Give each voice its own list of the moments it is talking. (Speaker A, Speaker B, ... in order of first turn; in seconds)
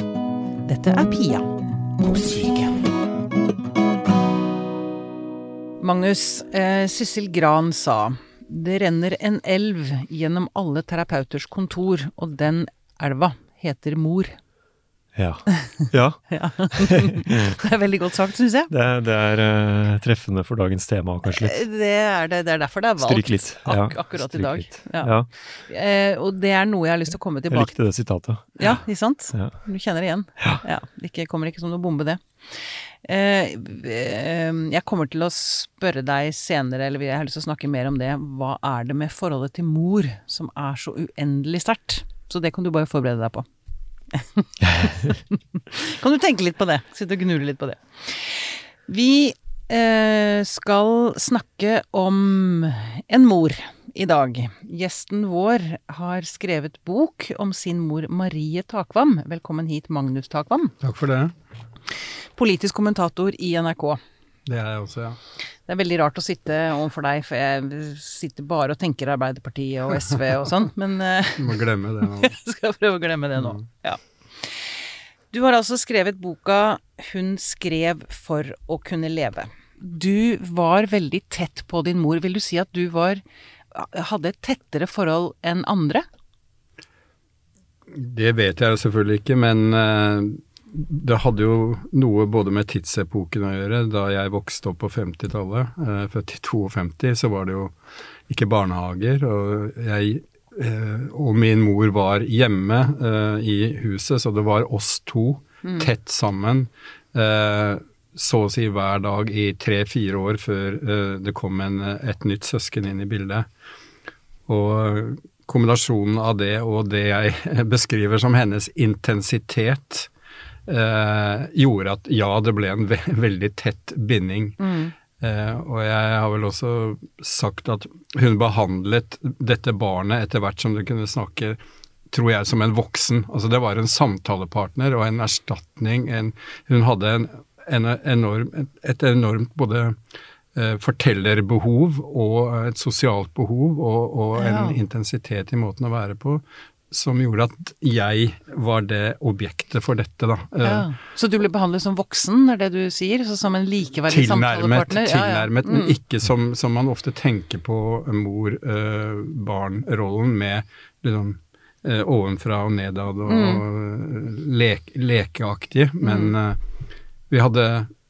Speaker A: 0.6-2.8, 5.8-14.4, 15.5-18.7, 21.2-27.8, 28.6-43.5, 44.1-60.7, 61.9-64.0, 65.7-86.0, 105.6-105.9, 124.6-124.9, 144.3-144.8, 150.6-155.9, 163.3-163.6, 166.0-166.3
Speaker B: 15.1-17.5, 18.7-21.6, 23.0-25.3, 27.5-28.7, 44.6-44.9
Speaker C: 60.8-61.3, 64.5-65.2, 71.4-72.3, 87.9-97.7, 98.3-113.5, 114.5-120.1, 120.7-124.6, 125.2-131.6, 132.1-140.0, 140.5-150.9, 154.1-166.6, 167.3-167.9